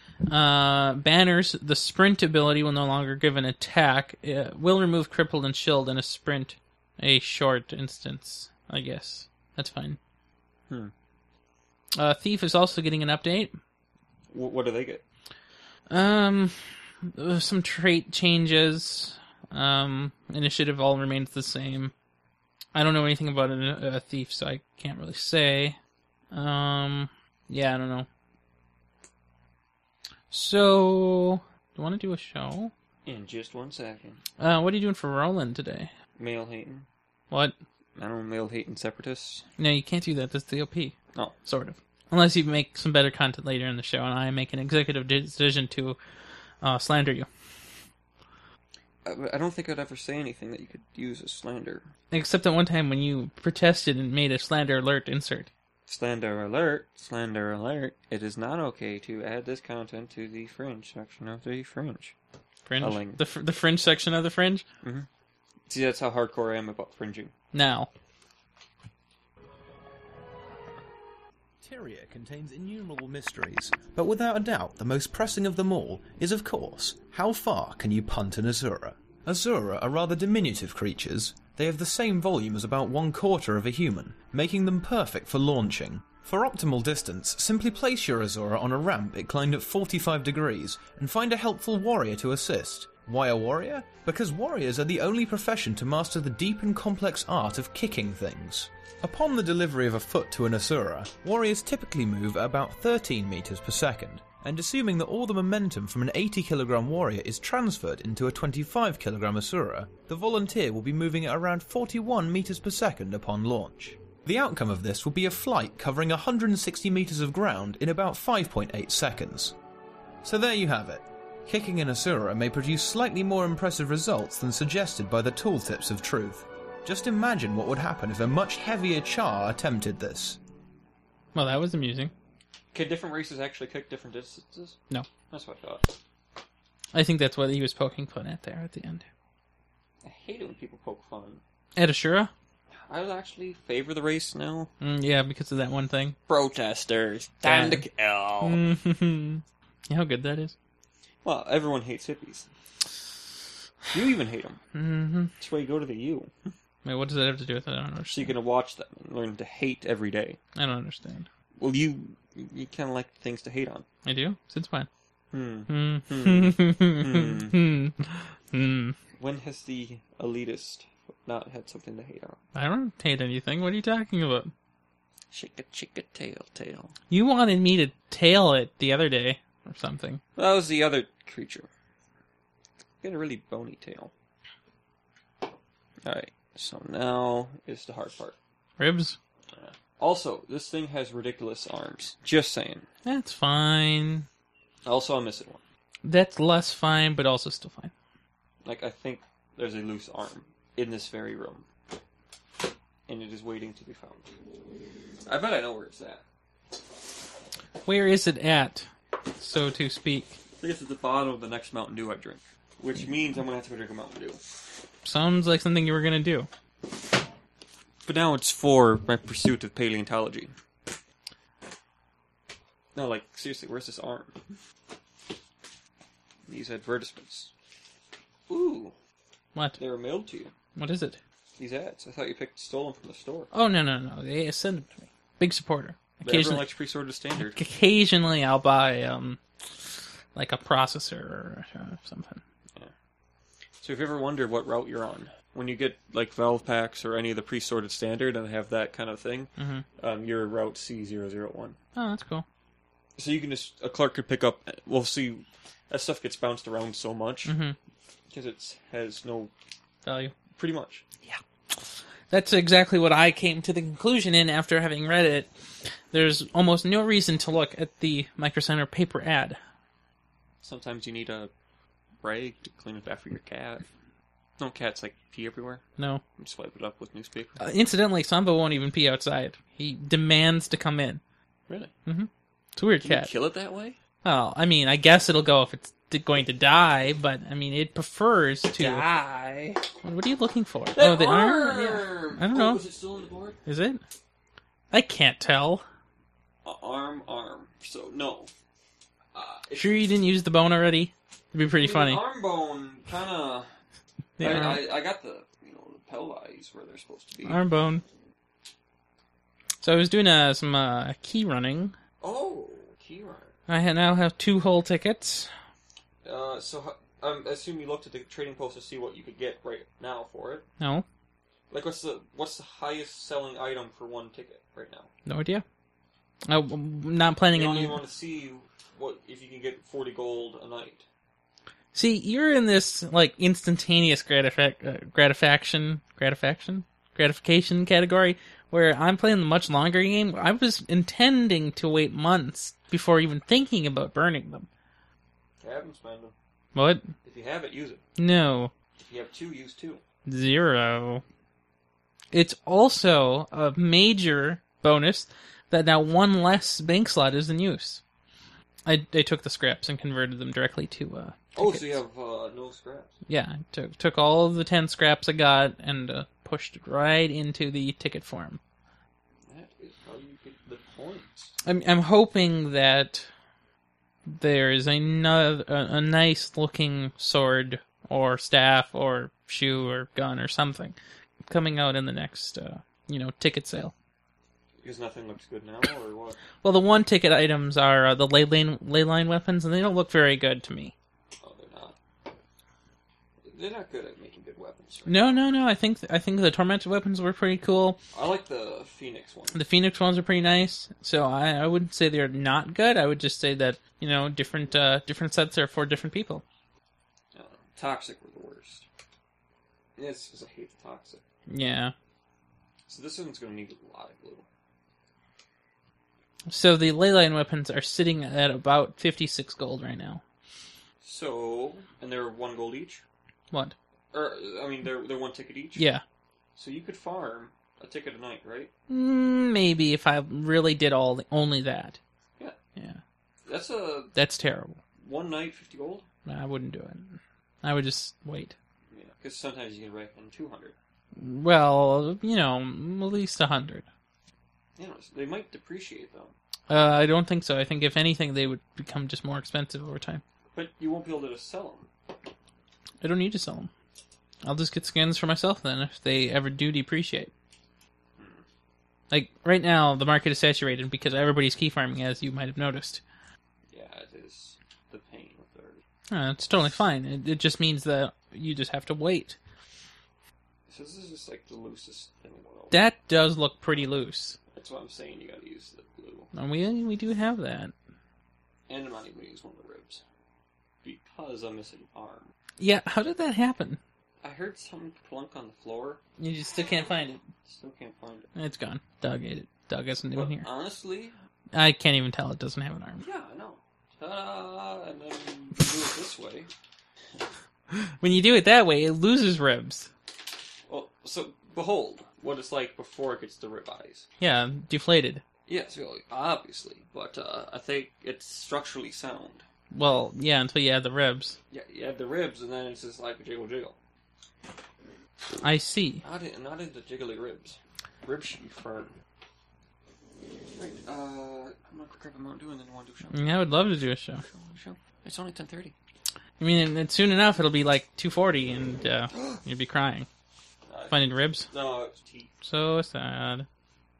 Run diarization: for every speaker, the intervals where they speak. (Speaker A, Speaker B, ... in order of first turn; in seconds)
Speaker A: 0.3-10.0, 12.0-13.6, 15.9-21.9, 22.8-25.8, 26.3-28.1, 30.3-32.7, 34.4-35.9, 37.3-37.6, 39.6-46.0, 46.6-47.3, 52.1-55.5, 62.7-64.7, 67.5-67.9, 131.3-132.1, 136.9-139.1, 141.8-142.3, 144.8-146.2, 147.4-147.9, 148.4-150.5, 154.7-155.3, 156.8-158.3, 160.6-161.3, 164.1-164.9, 165.7-169.0, 172.6-174.5, 177.1-180.2, 188.8-189.2, 193.1-194.3, 196.0-197.9, 207.8-210.4, 215.1-216.5, 230.8-231.2, 233.5-236.7, 237.4-239.4, 240.3-242.4, 249.6-249.8, 251.9-252.4, 257.5-257.8, 260.1-260.3, 261.2-265.5, 266.1-269.6, 277.6-281.2, 282.1-283.3, 284.2-289.1, 290.0-292.8, 293.7-294.0, 294.9-295.8, 299.8-302.2, 304.4-304.9, 307.5-308.0, 309.8-311.9, 313.7-315.5, 320.8-321.1, 325.3-325.6, 326.5-328.0, 331.9-344.7, 346.8-347.0, 348.2-348.7, 350.3-351.2, 352.3-358.0, 358.9-362.0, 363.3-368.6, 371.6-373.3, 374.3-381.0, 381.5-383.9, 386.6-390.9, 395.1-398.0, 399.5-406.4, 411.5-411.9, 416.5-420.2, 425.8-426.0, 428.9-432.0, 432.8-433.0, 434.1-434.8, 436.3-438.6, 441.2-443.9, 446.7-450.2, 453.0-453.7, 454.4-457.3, 459.1-463.0, 466.1-469.4, 472.7-474.4, 476.3-477.7, 482.6-483.8, 486.2-487.2, 488.4-490.5, 491.5-493.0, 497.7-499.9, 504.2-505.2, 509.7-511.4, 515.4-516.0, 523.1-524.2, 526.4-530.1, 530.9-531.5, 532.4-533.5
Speaker B: 14.3-15.0, 33.1-34.2, 36.2-36.9, 38.0-39.5, 49.0-51.9, 55.9-62.1, 62.8-63.2, 64.8-65.1, 65.7-67.3, 132.7-135.9, 140.0-141.4, 142.8-144.7, 146.3-148.7, 151.2-152.5, 153.9-154.6, 155.4-156.5, 158.1-160.4, 161.6-163.9, 165.3-167.6, 169.2-172.4, 175.3-176.9, 180.4-181.7, 183.0-184.1, 186.0-188.4, 189.5-192.9, 194.8-195.6, 198.7-201.7, 203.1-204.3, 205.3-206.2, 210.6-214.4, 218.1-220.5, 222.9-224.6, 226.5-227.5, 228.5-228.9, 229.8-230.5, 231.6-233.5, 236.2-237.6, 243.8-251.8, 253.2-257.5, 258.3-259.5, 260.5-261.1, 270.6-271.5, 272.2-273.9, 274.6-275.8, 276.4-277.6, 283.0-284.0, 288.8-289.9, 290.9-293.6, 296.6-298.5, 299.3-300.1, 301.8-303.7, 304.4-307.6, 312.2-313.5, 316.2-320.7, 321.7-325.1, 327.5-331.1, 345.6-346.4, 347.2-348.0, 349.0-350.0, 361.5-363.1, 369.5-371.6, 384.8-386.4, 391.4-392.0, 393.4-395.4, 398.1-399.6, 407.3-408.9, 410.0-411.2, 412.9-414.5, 421.0-423.0, 424.1-425.9, 426.6-428.7, 433.5-434.1, 435.0-436.1, 438.9-440.8, 444.8-446.4, 450.5-451.9, 458.2-458.4, 463.7-465.8, 470.7-472.8, 474.5-476.3, 478.7-480.0, 480.8-482.3, 484.2-486.0, 487.4-488.3, 490.1-491.1, 493.0-496.5, 500.7-504.1, 505.5-509.4, 511.5-513.8, 516.0-518.9, 520.5-523.3, 524.2-525.7, 529.1-529.4, 530.7-532.3
Speaker C: 71.6-119.6, 120.2-130.4